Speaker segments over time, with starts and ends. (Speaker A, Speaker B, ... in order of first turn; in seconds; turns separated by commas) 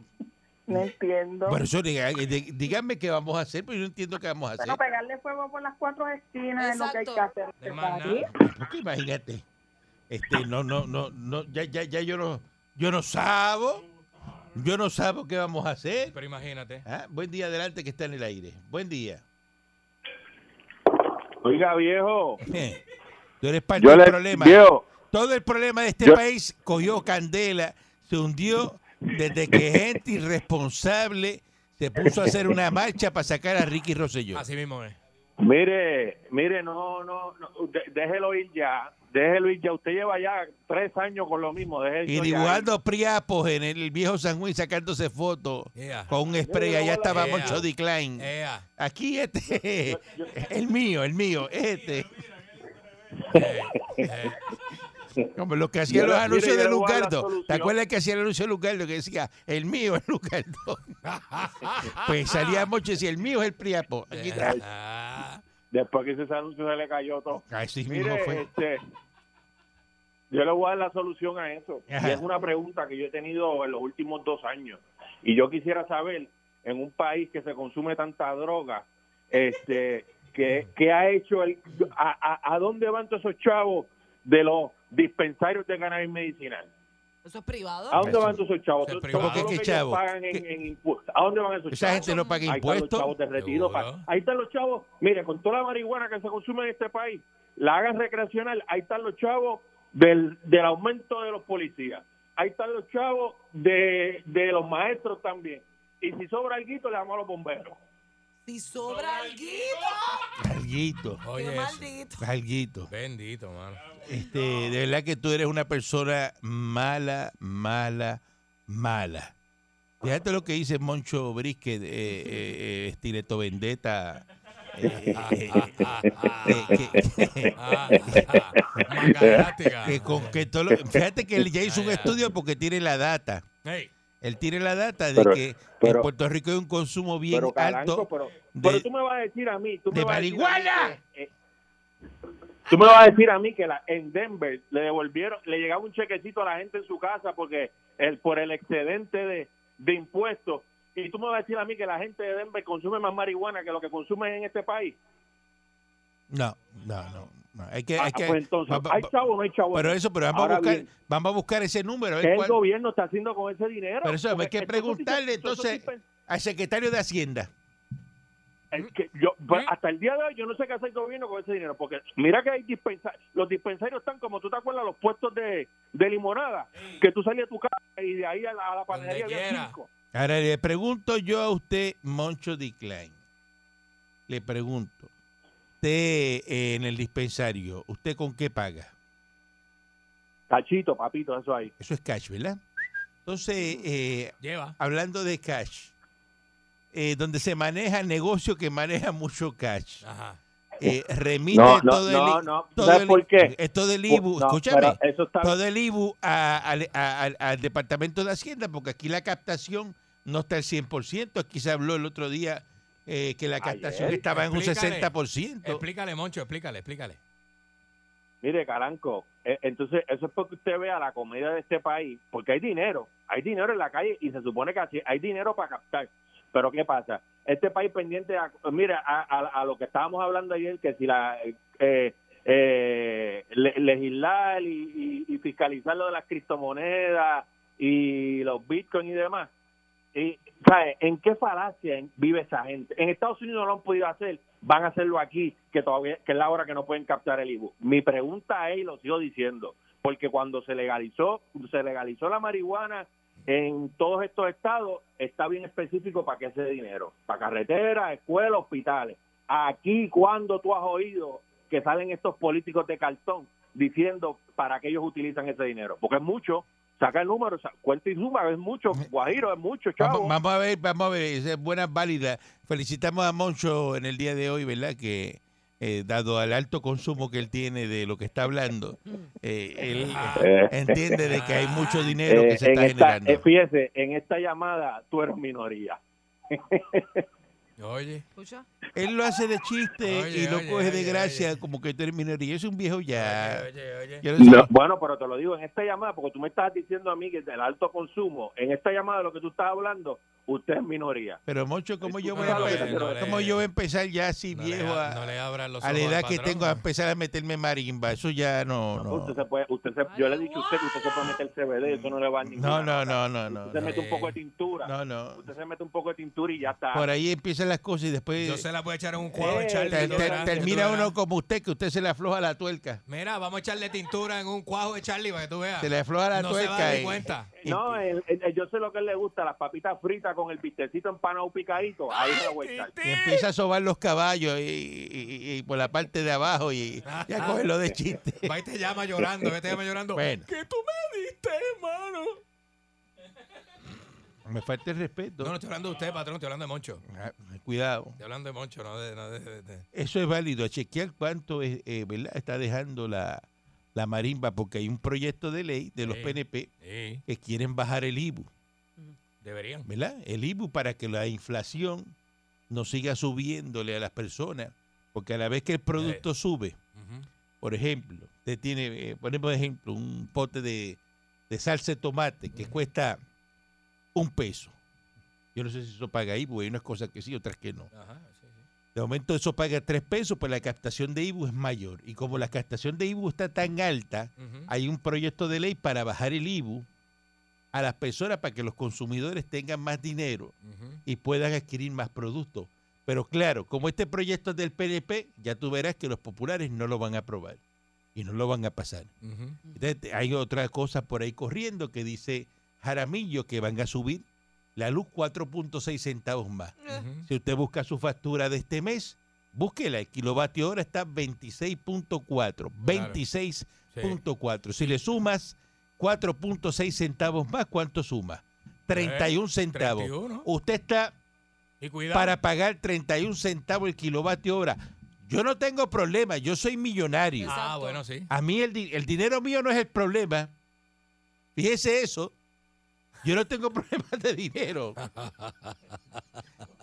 Speaker A: 0.7-1.6, Speaker B: 1.5-4.8, Speaker A: 4.6-8.3, Speaker C: 6.6-7.3, Speaker D: 7.6-8.3, Speaker B: 8.3-9.4, Speaker B: 10.1-13.8, Speaker B: 14.5-16.2, Speaker D: 16.1-16.9, Speaker B: 16.9-19.2, Speaker E: 21.4-22.4, Speaker B: 22.4-22.8, Speaker B: 23.4-34.5, Speaker E: 23.8-24.8, Speaker E: 32.0-32.6, Speaker D: 34.3-35.0, Speaker E: 35.4-42.7, Speaker B: 42.1-52.3, Speaker D: 45.8-46.1, Speaker E: 46.4-47.6, Speaker D: 47.1-48.7, Speaker E: 49.9-50.4, Speaker D: 53.3-54.5, Speaker E: 53.4-54.1, Speaker B: 55.4-61.0, Speaker E: 55.9-57.7, Speaker D: 61.0-62.7, Speaker B: 61.9-64.6, Speaker D: 64.1-65.4, Speaker E: 65.7-68.8, Speaker B: 67.3-68.5, Speaker E: 70.3-86.7, Speaker B: 71.9-72.3, Speaker C: 87.2-88.2, Speaker E: 87.9-107.8, Speaker B: 88.0-88.4, Speaker D: 88.8-89.5, Speaker B: 89.2-90.5, Speaker B: 91.7-93.2, Speaker C: 91.8-92.5, Speaker D: 93.4-94.1, Speaker C: 108.5-110.4, Speaker B: 110.4-111.2, Speaker D: 111.2-111.9, Speaker C: 111.3-112.2, Speaker B: 112.2-112.9, Speaker D: 112.9-114.0, Speaker B: 114.0-119.3, Speaker B: 120.0-125.9, Speaker E: 124.9-125.2, Speaker D: 125.1-130.4, Speaker B: 126.5-128.5, Speaker E: 128.2-129.5, Speaker B: 129.8-133.4, Speaker D: 131.6-132.2, Speaker D: 133.6-133.9, Speaker B: 134.2-138.9, Speaker E: 135.2-136.1, Speaker E: 137.3-141.3, Speaker B: 139.9-141.0, Speaker E: 142.7-155.0, Speaker B: 156.3-159.1, Speaker E: 158.0-160.9, Speaker B: 159.7-162.6, Speaker E: 162.2-166.1, Speaker B: 164.0-167.5, Speaker E: 168.7-179.9, Speaker D: 178.9-179.8, Speaker B: 180.1-183.2, Speaker B: 184.3-185.1, Speaker B: 185.8-188.9, Speaker E: 190.5-191.7, Speaker B: 191.8-192.6, Speaker B: 193.3-195.9, Speaker D: 194.4-194.8, Speaker B: 196.9-200.1, Speaker D: 200.0-200.4, Speaker B: 200.8-215.8, Speaker E: 201.5-203.5, Speaker E: 204.1-205.6, Speaker E: 213.6-214.2, Speaker D: 214.1-215.1, Speaker D: 215.6-217.2, Speaker E: 218.4-239.5, Speaker E: 240.1-270.4, Speaker B: 270.0-283.4, Speaker D: 279.9-280.5, Speaker E: 280.4-281.2, Speaker D: 281.3-282.2, Speaker E: 282.2-287.2, Speaker D: 287.8-288.2, Speaker C: 288.4-288.7, Speaker B: 288.9-293.7, Speaker D: 290.0-291.6, Speaker D: 293.1-294.3, Speaker B: 294.2-294.7, Speaker E: 294.4-301.4, Speaker B: 301.5-309.4, Speaker E: 302.0-303.4, Speaker D: 302.4-303.6, Speaker D: 304.5-306.8, Speaker E: 309.0-317.1, Speaker C: 310.1-311.4, Speaker B: 312.5-313.9, Speaker D: 313.8-314.4, Speaker B: 314.8-315.4, Speaker B: 316.9-318.7, Speaker D: 318.4-321.1, Speaker E: 319.4-321.0, Speaker B: 319.4-323.0, Speaker D: 323.1-327.5, Speaker B: 325.8-328.1, Speaker E: 327.6-332.9, Speaker D: 332.1-333.5, Speaker B: 333.0-338.6, Speaker D: 337.1-337.7, Speaker D: 338.4-342.4, Speaker B: 340.1-340.5, Speaker B: 344.4-345.6, Speaker D: 345.4-347.0, Speaker B: 347.1-348.2, Speaker D: 348.2-349.9, Speaker B: 349.9-356.7, Speaker D: 356.0-357.2, Speaker B: 357.3-358.5, Speaker D: 359.4-359.9, Speaker B: 359.9-362.1, Speaker B: 362.7-366.8, Speaker D: 366.0-366.2, Speaker D: 366.9-367.3, Speaker B: 367.6-371.0, Speaker B: 371.5-373.2, Speaker B: 374.1-374.8, Speaker B: 375.6-377.9, Speaker D: 377.9-378.6, Speaker B: 378.9-386.9, Speaker D: 384.4-384.7, Speaker B: 387.7-390.5, Speaker D: 390.6-391.0, Speaker B: 391.1-397.6, Speaker B: 398.1-399.1, Speaker D: 399.2-399.6, Speaker B: 399.7-404.2, Speaker B: 404.8-421.2, Speaker D: 406.9-407.3, Speaker D: 412.9-413.2, Speaker D: 413.9-414.2, Speaker D: 418.9-420.5, Speaker D: 421.8-422.3, Speaker B: 422.1-427.5, Speaker C: 427.4-428.0, Speaker D: 427.4-428.3, Speaker B: 428.3-430.5, Speaker B: 431.6-432.4, Speaker B: 433.2-435.0, Speaker D: 435.0-435.8